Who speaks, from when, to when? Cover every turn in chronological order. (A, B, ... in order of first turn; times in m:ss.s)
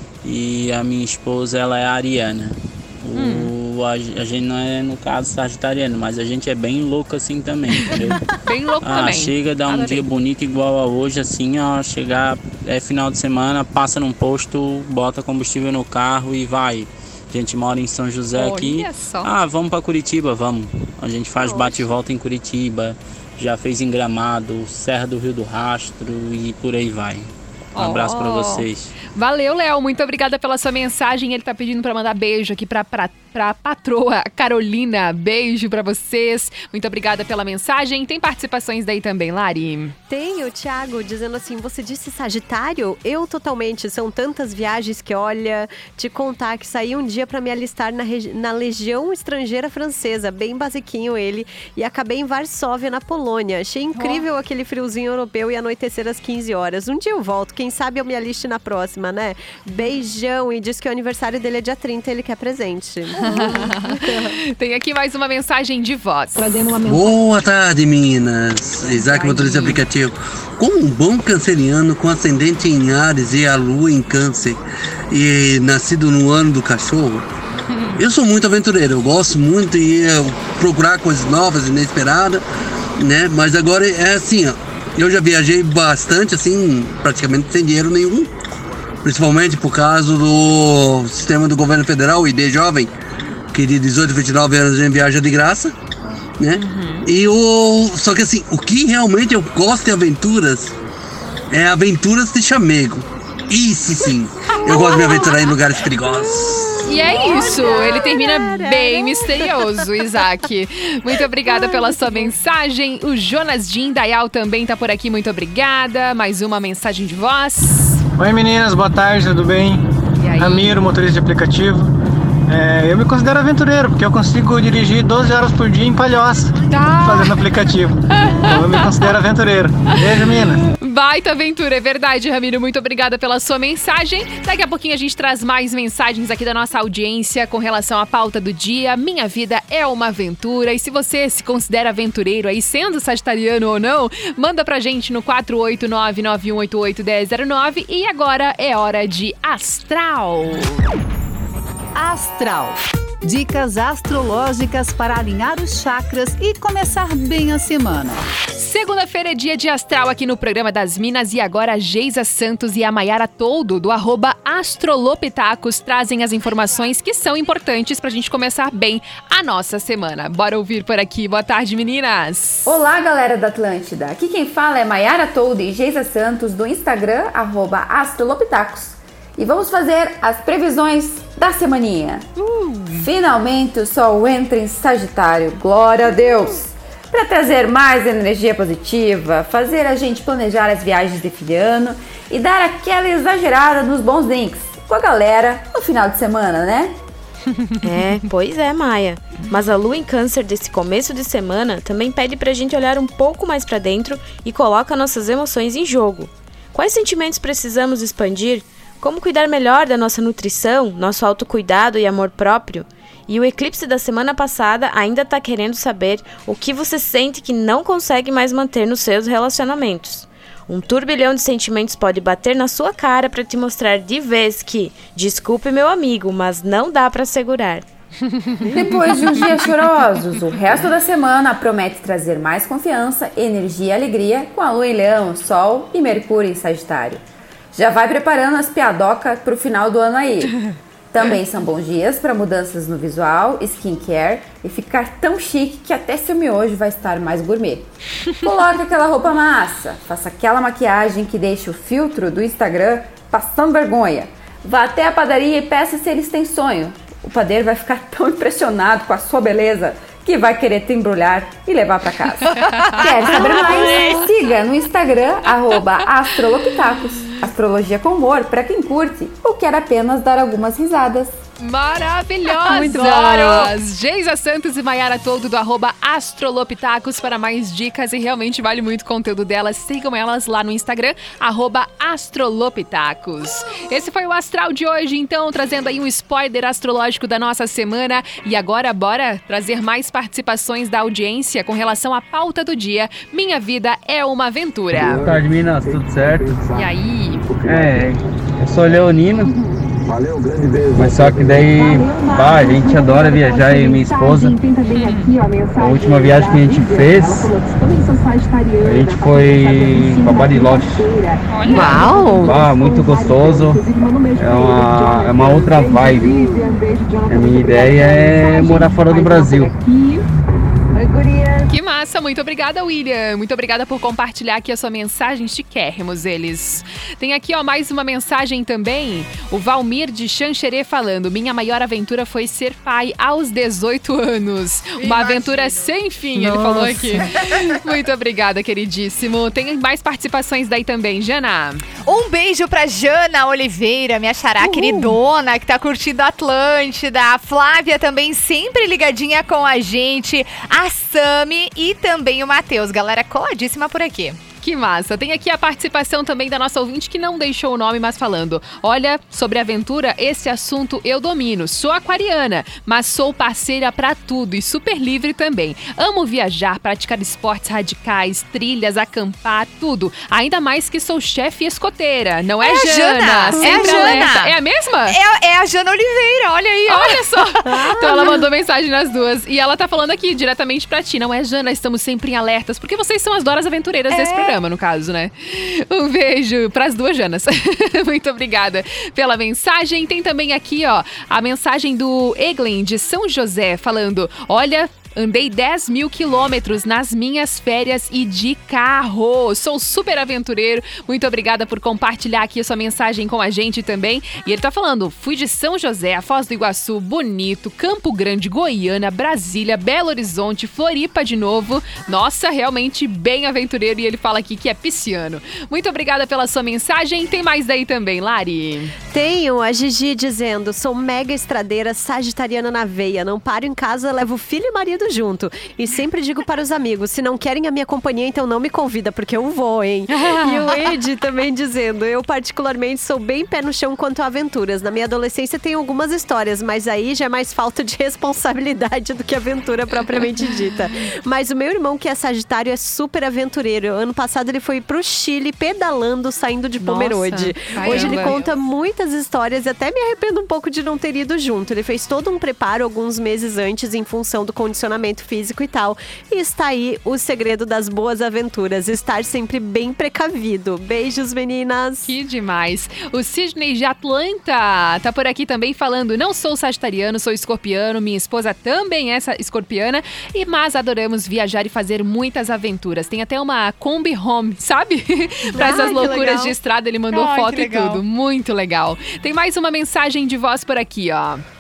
0:00.2-0:08.3 A
0:03.2-0:03.5 B
0:08.4-0:10.0 B
0:08.8-0:28.9 A
0:18.3-0:19.3 B
0:27.8-0:40.0 B
0:40.1-1:04.4 C
0:54.0-0:54.2 D
1:03.2-1:06.6 B
1:06.8-1:14.6 E
1:09.0-1:09.8 B
1:15.1-1:17.3 E
1:18.0-1:22.4 E
1:23.0-1:28.3 E
1:29.0-1:32.9 E
1:33.5-1:35.7 E
1:36.4-1:40.8 E
1:36.6-1:37.1 B
1:41.5-1:46.8 E
1:44.7-1:45.1 C
1:46.3-1:49.9 C
1:46.8-1:58.0 B
1:51.5-1:52.3 C
1:58.2-1:59.8 F
2:00.2-2:00.8 B
2:00.4-2:01.9 F
2:02.5-2:10.6 F
2:06.7-2:07.4 B
2:08.1-2:09.1 B
2:09.9-2:30.8 B
2:32.0-2:38.3 G
2:38.6-2:52.7 B
2:52.7-3:02.2 H
3:02.4-3:03.1 B
3:03.0-3:16.9 H
3:17.8-3:47.8 I
3:48.7-3:57.2 H
3:57.8-4:00.5 H
4:01.1-4:07.8 H
4:08.4-4:31.3 H
4:23.2-4:24.2 B
4:31.6-4:55.2 B
4:32.8-4:33.6 H
4:56.7-4:57.5 B
4:57.7-4:58.0 J
5:01.1-5:01.6 J
5:02.7-5:04.5 J
5:04.9-5:05.4 B
5:06.7-5:07.4 J
5:08.9-5:10.6 J
5:11.5-5:11.9 B
5:11.7-5:12.5 C
5:12.6-5:13.4 J
5:14.5-5:16.3 J
5:15.5-5:16.0 A
5:17.4-5:19.4 J
5:18.0-5:18.5 A
5:21.7-5:41.8 B
5:35.0-5:35.9 D
5:42.0-5:54.4 D
5:54.6-6:15.2 B
6:12.6-6:18.4 D
6:13.6-6:14.1 C
6:16.9-6:58.9 B
6:17.6-6:18.4 C
6:24.1-6:24.6 D
6:59.1-7:42.1 C
7:10.2-7:10.7 B
7:26.8-7:28.4 B
7:27.8-7:28.5 D
7:42.1-8:01.4 B
7:55.6-7:56.5 D
7:55.6-7:56.4 C
7:57.1-7:58.0 D